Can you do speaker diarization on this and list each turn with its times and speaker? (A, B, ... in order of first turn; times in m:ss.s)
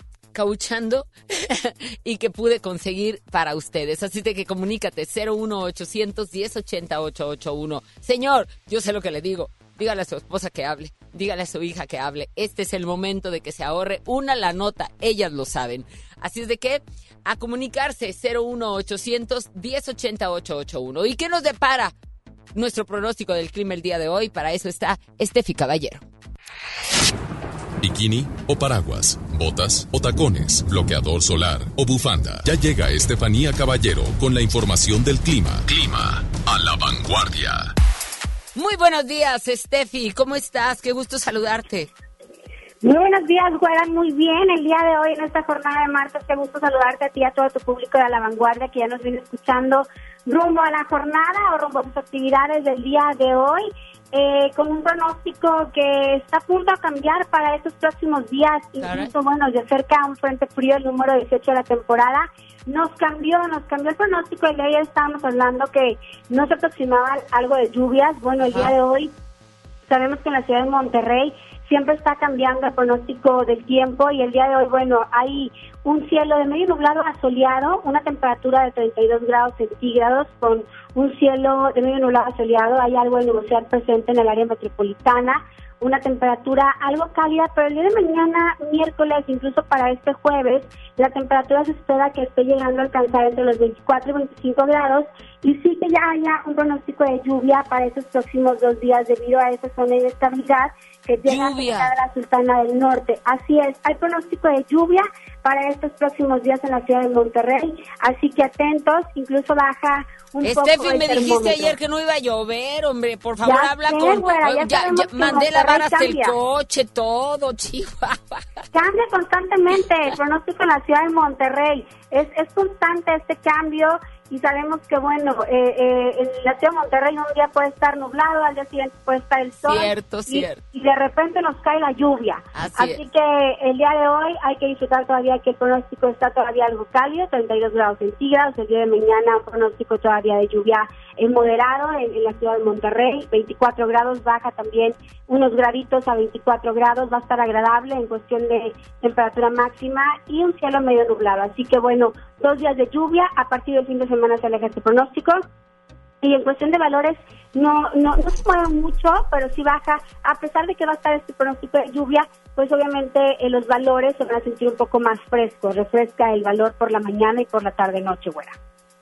0:00.3-0:21.9 A
0:22.5-0:26.0 A
0:27.8-0:37.7 B
0:38.6-0:41.9 A
0:42.8-1:09.1 C
0:58.8-0:59.1 A
1:09.9-1:51.8 C
1:41.2-1:41.9 A
1:50.4-1:58.4 A
1:53.4-1:56.3 C
1:58.7-2:35.4 C
2:09.6-2:10.6 A
2:12.5-2:13.0 A
2:36.2-2:48.6 C